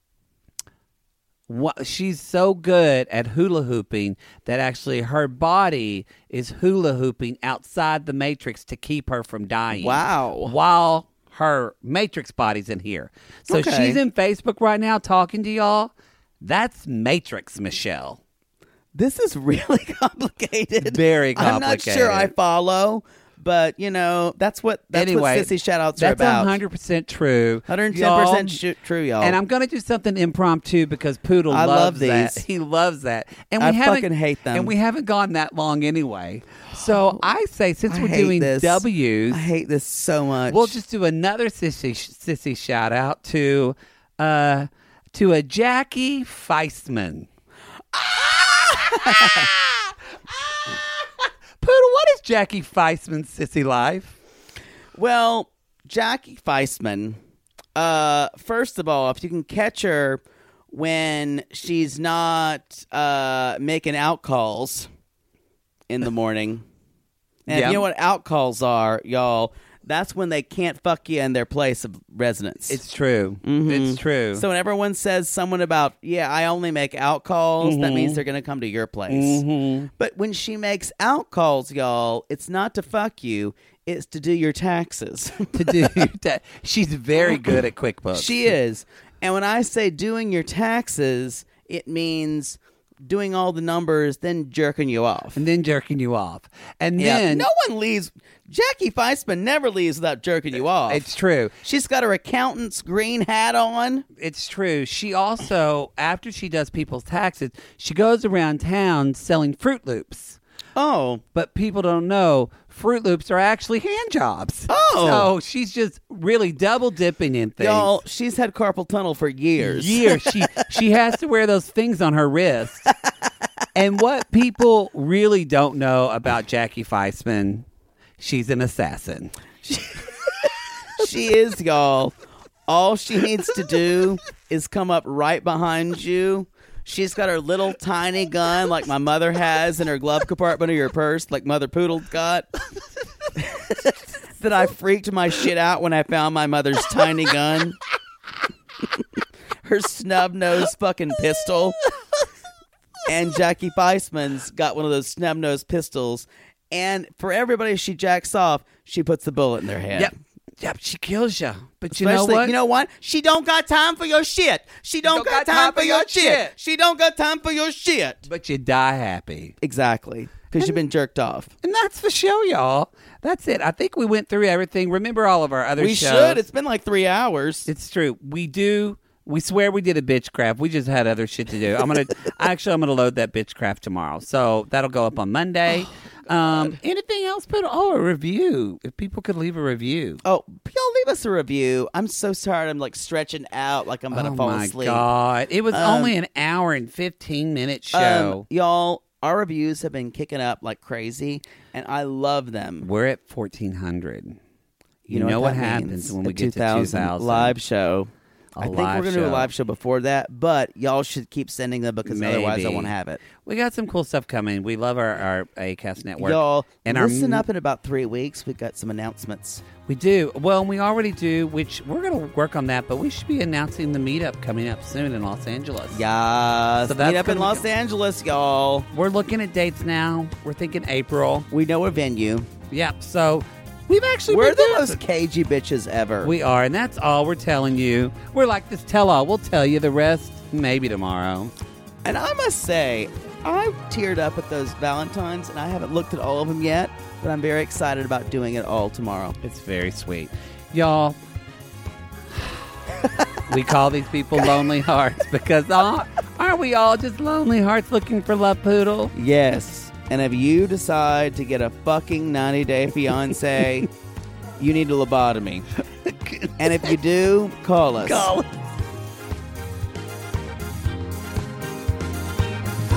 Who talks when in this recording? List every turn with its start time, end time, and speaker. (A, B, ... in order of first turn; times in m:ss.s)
0:01.5-0:18.2 A
0:09.7-0:10.5 B
0:13.5-0:14.0 B
0:18.9-0:26.6 B
0:20.8-0:22.3 A
0:24.9-0:28.6 A
0:27.7-0:29.4 B
0:29.2-0:39.5 A
0:31.5-0:32.4 B
0:33.6-0:34.7 B
0:36.8-0:37.2 B
0:37.9-0:40.8 B
0:40.5-0:47.3 A
0:47.9-0:49.5 B
0:48.7-0:50.9 A
0:51.6-0:54.2 A
0:54.9-0:57.2 B
0:57.8-1:04.9 B
1:05.9-1:06.6 B
1:07.4-1:12.8 B
1:07.5-1:07.8 A
1:12.7-1:14.4 A
1:13.4-1:19.4 B
1:17.6-1:18.2 A
1:19.1-1:19.9 A
1:19.9-1:26.0 B
1:25.5-1:28.5 A
1:28.1-1:35.4 B
1:35.3-1:37.5 A
1:37.0-1:41.0 B
1:40.9-1:41.6 A
1:41.6-1:44.0 B
1:44.2-1:50.4 A
1:50.8-1:51.2 B
1:51.3-1:58.0 A
1:54.7-1:55.3 B
1:57.6-2:00.4 B
1:59.6-2:02.9 A
2:03.7-2:07.6 A
2:08.2-2:09.3 A
2:09.6-2:10.5 B
2:11.0-2:22.5 B
2:23.4-2:27.8 B
2:29.6-2:31.8 B
2:33.1-2:40.1 B
2:39.9-2:42.5 A
2:41.9-2:48.2 B
2:45.0-2:46.5 A
2:48.2-2:49.5 A
2:49.6-2:51.5 B
2:50.5-2:50.8 A
2:51.6-2:56.4 A
2:55.8-2:57.7 B
2:57.7-3:10.2 A
3:06.3-3:06.7 B
3:10.2-3:15.1 B
3:14.1-3:18.4 A
3:15.7-3:16.1 B
3:17.9-3:22.9 B
3:22.8-3:24.4 A
3:25.1-3:27.6 A
3:25.1-3:33.2 B
3:28.6-3:29.5 A
3:32.0-3:37.4 A
3:36.2-3:39.6 B
3:39.8-3:46.0 A
3:45.9-3:48.9 B
3:46.8-3:47.6 A
3:48.9-3:51.5 A
3:51.5-3:52.5 B
3:52.7-3:55.0 A
3:54.3-3:56.3 B
3:56.2-4:01.5 A
4:02.0-4:09.4 B
4:09.4-4:11.2 A
4:13.5-4:19.1 A
4:19.1-4:23.9 B
4:24.6-4:25.6 B
4:26.1-4:26.9 A
4:26.6-4:28.3 B
4:28.0-4:28.5 A